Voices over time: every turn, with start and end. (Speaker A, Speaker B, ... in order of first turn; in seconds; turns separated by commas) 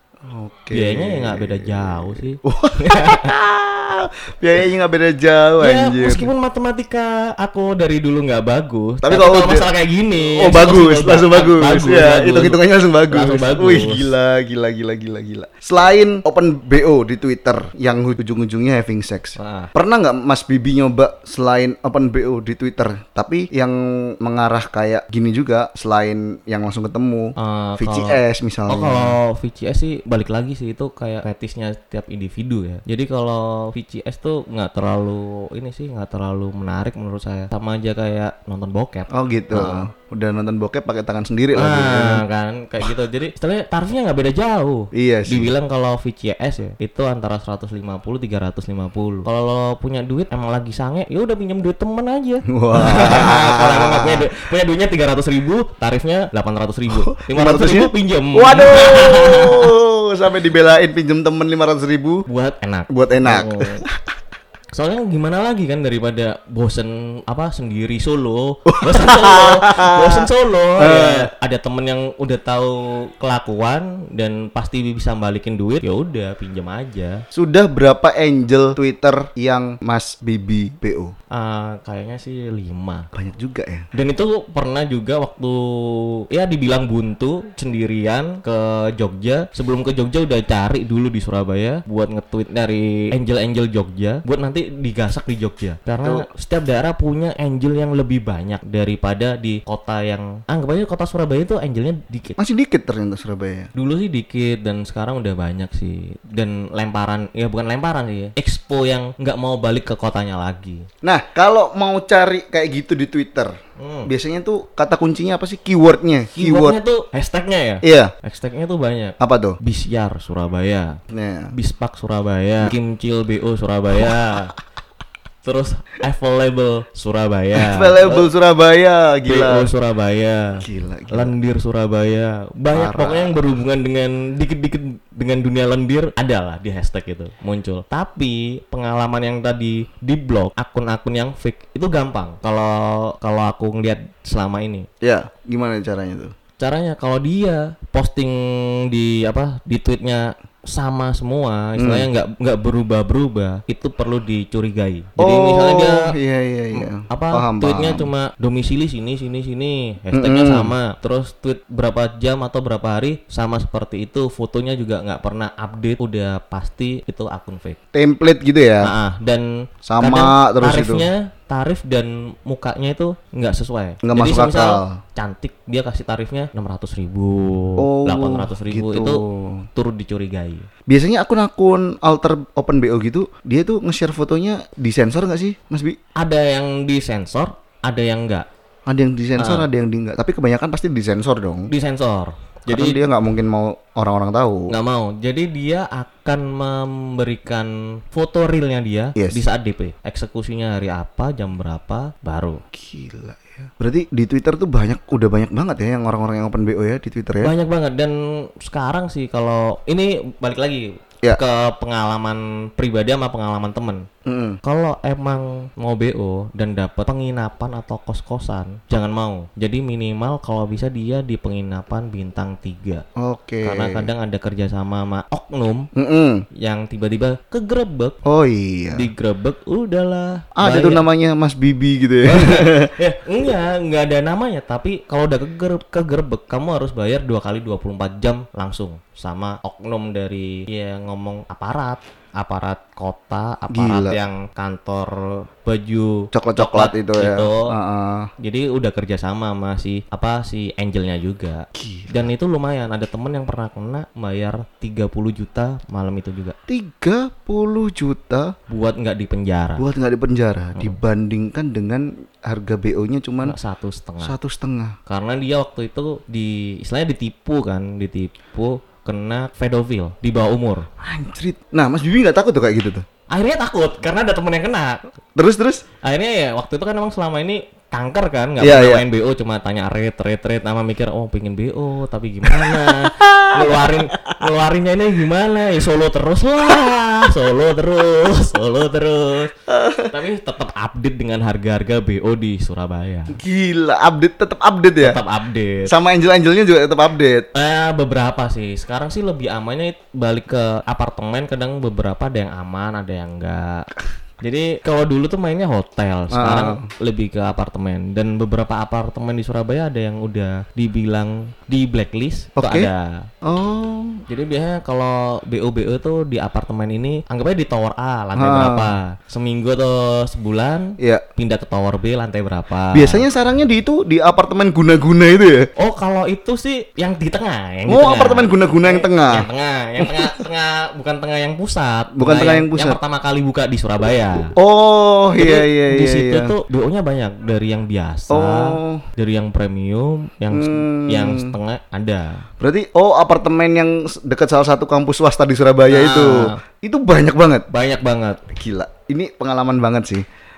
Speaker A: 0.2-6.3, Speaker B: 0.7-3.4, Speaker B: 5.6-14.1, Speaker A: 9.0-29.2, Speaker B: 19.4-19.7, Speaker B: 27.4-28.2, Speaker B: 28.7-39.9, Speaker A: 39.1-42.2, Speaker B: 41.5-59.7, Speaker A: 44.9-45.5, Speaker A: 52.5-54.4, Speaker A: 56.9-62.3, Speaker B: 62.3-63.8, Speaker A: 62.9-64.0, Speaker B: 64.7-77.2, Speaker A: 68.7-71.3, Speaker A: 77.3-81.1, Speaker B: 81.3-83.1, Speaker A: 83.1-83.9, Speaker B: 83.9-102.4, Speaker A: 102.4-103.7, Speaker B: 103.8-110.9, Speaker A: 111.0-113.5, Speaker B: 113.8-114.1, Speaker A: 114.1-116.8, Speaker B: 116.4-121.0, Speaker A: 117.8-118.1, Speaker A: 119.2-119.6, Speaker A: 121.1-121.5, Speaker B: 121.5-124.5, Speaker B: 125.4-128.3, Speaker A: 127.5-129.7, Speaker B: 129.3-130.6, Speaker A: 130.6-131.3, Speaker B: 131.1-144.9, Speaker A: 132.7-133.3, Speaker A: 145.0-146.3, Speaker B: 146.6-156.1, Speaker A: 151.8-152.1, Speaker A: 155.2-158.1, Speaker B: 156.8-167.8, Speaker A: 160.1-160.7, Speaker A: 167.9-168.9, Speaker B: 168.8-179.2, Speaker A: 169.9-171.1, Speaker A: 174.0-175.0, Speaker A: 177.8-179.7, Speaker B: 179.8-180.7, Speaker A: 180.9-186.0, Speaker B: 186.2-188.5, Speaker A: 188.9-191.7, Speaker B: 189.4-189.7, Speaker B: 191.7-193.0, Speaker A: 192.7-194.7, Speaker B: 194.7-202.6, Speaker A: 199.2-199.4, Speaker A: 202.7-207.5, Speaker B: 207.4-214.1, Speaker A: 214.3-214.6, Speaker B: 214.6-223.0, Speaker A: 223.2-224.1, Speaker B: 223.6-225.9, Speaker A: 225.9-226.4, Speaker B: 226.6-228.2, Speaker A: 228.2-229.1, Speaker B: 228.9-231.0, Speaker A: 230.6-232.9, Speaker B: 232.2-247.7, Speaker A: 243.7-244.2, Speaker A: 246.3-248.3, Speaker B: 248.4-256.6, Speaker A: 251.8-252.3, Speaker A: 256.7-258.5, Speaker B: 258.7-259.8, Speaker A: 259.8-263.6, Speaker B: 263.4-264.4, Speaker A: 264.2-265.0, Speaker B: 265.1-270.9, Speaker A: 271.0-273.0, Speaker B: 273.3-275.0, Speaker A: 275.4-275.8, Speaker B: 276.0-289.5, Speaker A: 278.6-279.0, Speaker A: 282.5-284.4, Speaker A: 289.7-290.1, Speaker B: 290.1-293.4, Speaker A: 293.3-295.2, Speaker B: 295.0-295.9, Speaker A: 295.9-297.5, Speaker B: 297.5-303.9, Speaker B: 304.4-313.3, Speaker A: 306.3-306.9, Speaker A: 312.6-312.9, Speaker A: 313.4-314.2, Speaker B: 314.3-323.2, Speaker A: 318.4-318.9, Speaker A: 322.9-325.7, Speaker B: 325.8-334.5, Speaker A: 327.9-329.5, Speaker A: 330.0-330.3, Speaker A: 332.2-333.0, Speaker A: 334.6-336.5, Speaker B: 335.4-342.4, Speaker A: 338.3-339.1, Speaker A: 340.5-341.6, Speaker A: 342.6-347.7, Speaker B: 345.9-346.6, Speaker B: 347.7-348.4, Speaker A: 348.5-350.2